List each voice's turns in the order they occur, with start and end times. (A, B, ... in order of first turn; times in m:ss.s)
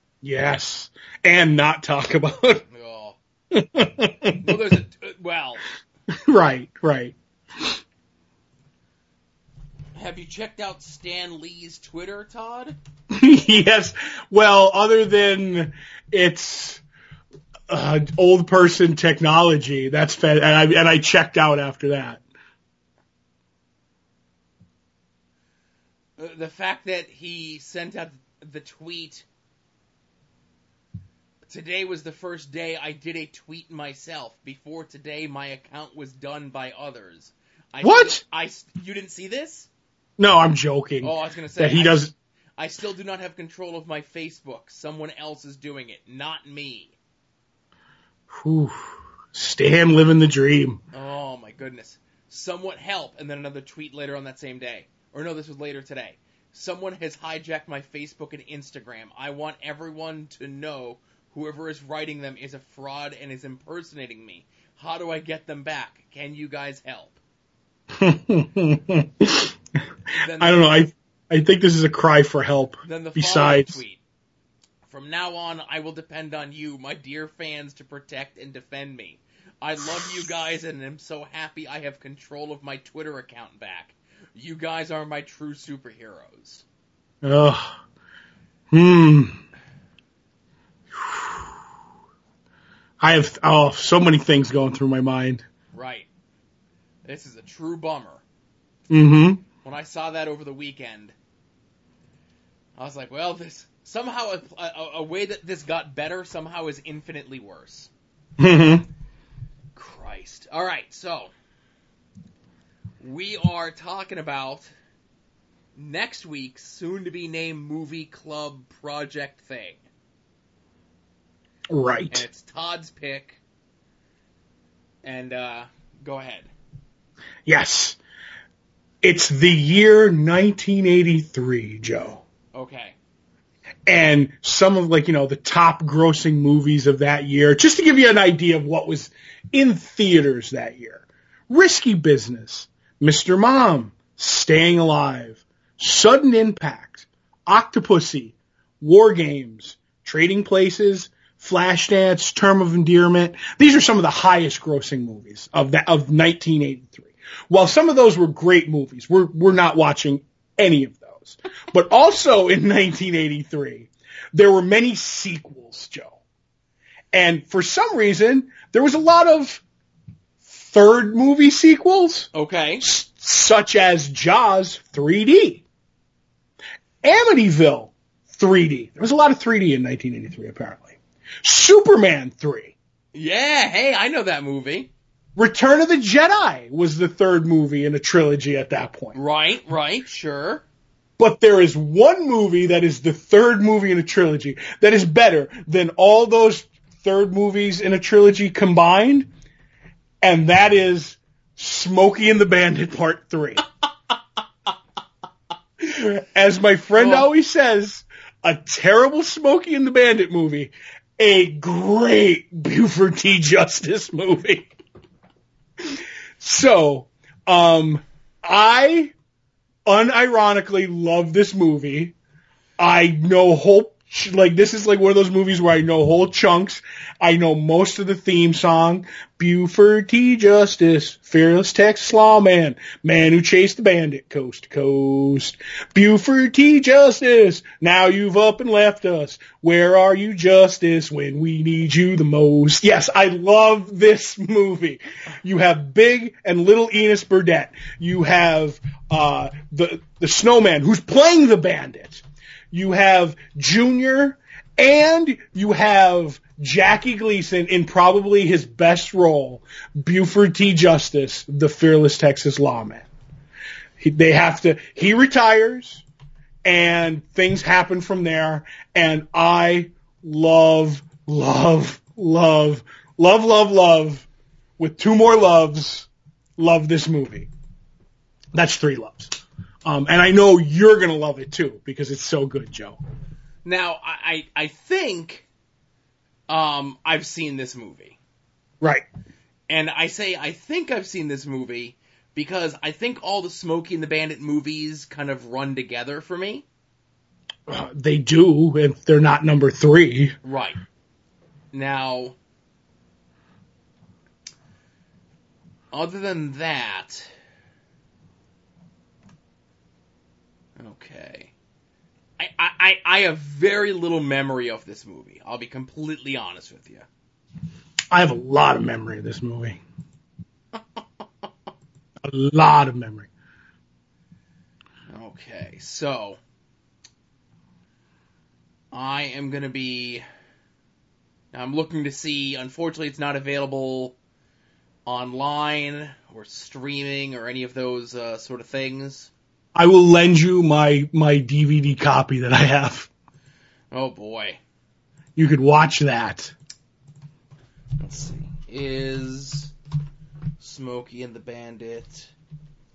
0:00.2-0:02.6 A
0:02.7-0:03.2 B
0:03.5-0:04.6 A
0:04.4-0:05.6 B
0:06.1-0:07.8 A
0:09.9-0:12.8 B
0:13.1-0:16.8 A
0:17.7-0:22.2 A
0:26.2-0:29.2 B
0:31.5-0:39.7 B
0:37.8-0:38.2 A
0:40.2-0:42.1 A
0:41.0-0:47.0 B
0:48.3-0:50.8 A
0:50.9-1:07.2 B
1:07.9-1:09.5 A
1:10.2-1:10.8 B
1:10.4-1:13.8 A
1:12.8-1:14.0 B
1:14.8-1:26.6 B
1:27.2-1:27.8 A
1:28.7-1:29.4 A
1:31.0-1:31.4 A
1:33.0-1:35.4 A
1:35.7-1:36.1 B
1:37.0-1:38.2 B
1:38.9-1:39.4 A
1:39.6-1:41.1 B
1:42.8-1:47.9 B
1:48.4-1:48.8 A
1:49.7-1:51.3 B
1:53.0-1:54.7 B
1:55.8-1:59.8 B
2:01.7-2:02.2 A
2:02.1-2:03.4 B
2:05.0-2:06.5 B
2:07.4-2:08.0 A
2:09.0-2:12.2 A
2:12.5-2:13.0 B
2:13.9-2:46.2 A
2:47.1-2:49.6 A
2:50.4-2:52.3 A
2:52.3-2:52.8 B
2:52.8-2:55.6 A
2:57.0-3:02.7 A
3:03.1-3:04.9 B
3:05.4-3:09.2 A
3:09.1-3:10.6 B
3:11.2-3:19.3 A
3:20.2-3:23.6 A
3:25.8-3:34.7 A
3:27.0-3:27.3 B
3:35.8-3:39.1 A
3:39.8-3:42.1 A
3:42.8-4:23.1 A
4:24.0-4:26.0 A
4:26.6-4:34.2 A
4:34.8-4:37.5 A
4:38.5-4:43.0 A
4:43.6-4:45.4 B
4:46.5-4:48.2 B
4:48.8-4:49.0 A
4:49.7-4:56.6 B
4:57.7-5:00.4 A
5:00.4-5:00.8 B
5:01.7-5:02.4 B
5:05.9-5:07.3 B
5:10.8-5:11.5 B
5:12.4-5:17.0 B
5:18.1-5:19.8 A
5:22.2-5:23.3 A
5:25.1-5:26.4 B
5:28.9-5:30.2 B
5:31.5-5:34.2 B
5:35.0-5:39.3 B
5:39.7-5:43.1 A
5:43.9-5:44.6 B
5:45.4-5:46.5 A
5:48.0-5:49.7 B
5:50.6-5:52.3 B